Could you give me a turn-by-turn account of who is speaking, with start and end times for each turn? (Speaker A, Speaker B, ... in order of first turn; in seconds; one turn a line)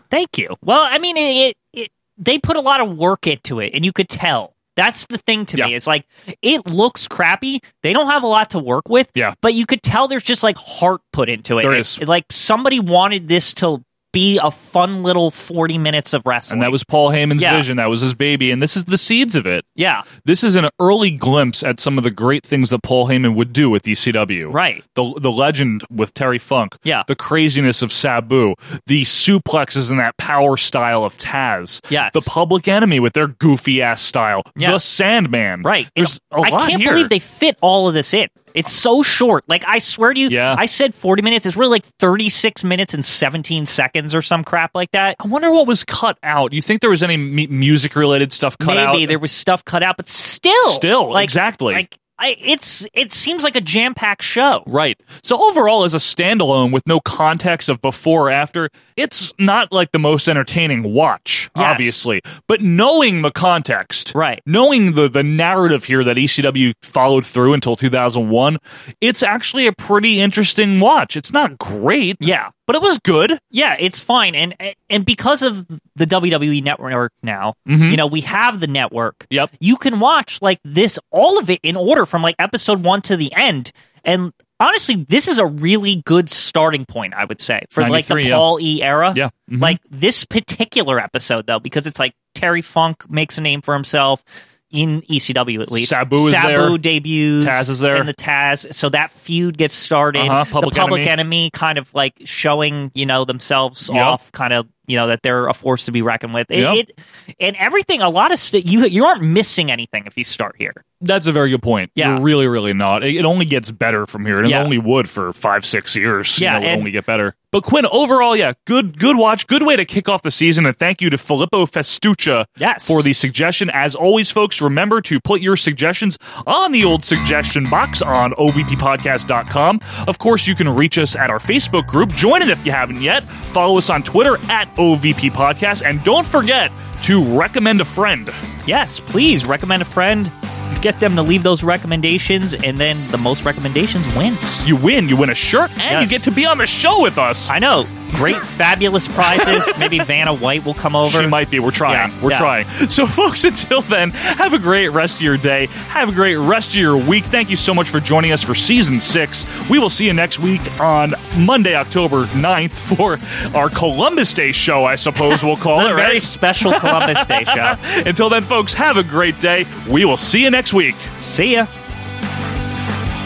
Speaker A: 0.1-16.8
Speaker B: 11.6-12.0
Speaker B: 16.5-37.1
Speaker A: 17.4-17.6
Speaker A: 19.8-20.0
Speaker A: 24.5-24.8
Speaker A: 31.9-32.3
Speaker A: 35.6-45.2
Speaker B: 40.3-40.6
Speaker B: 45.2-49.2
Speaker A: 48.6-54.6
Speaker B: 50.6-51.8
Speaker B: 54.7-73.4
Speaker A: 61.5-62.0
Speaker A: 64.1-64.4
Speaker A: 72.2-72.5
Speaker A: 73.5-110.8
Speaker B: 77.7-78.0
Speaker B: 87.8-88.6
Speaker B: 89.1-89.8
Speaker B: 95.7-96.8
Speaker B: 97.4-98.1
Speaker B: 100.1-101.1
Speaker B: 103.9-104.2
Speaker B: 106.5-106.8
Speaker B: 111.0-138.3
Speaker A: 112.0-112.2
Speaker A: 114.4-114.7
Speaker A: 116.4-116.9
Speaker A: 122.6-123.0
Speaker A: 138.7-144.7
Speaker B: 144.6-147.5
Speaker A: 145.9-146.2
Speaker A: 147.5-151.3
Speaker B: 149.2-150.1
Speaker B: 151.0-171.0
Speaker A: 151.9-152.5
Speaker A: 165.7-167.8
Speaker A: 171.2-171.7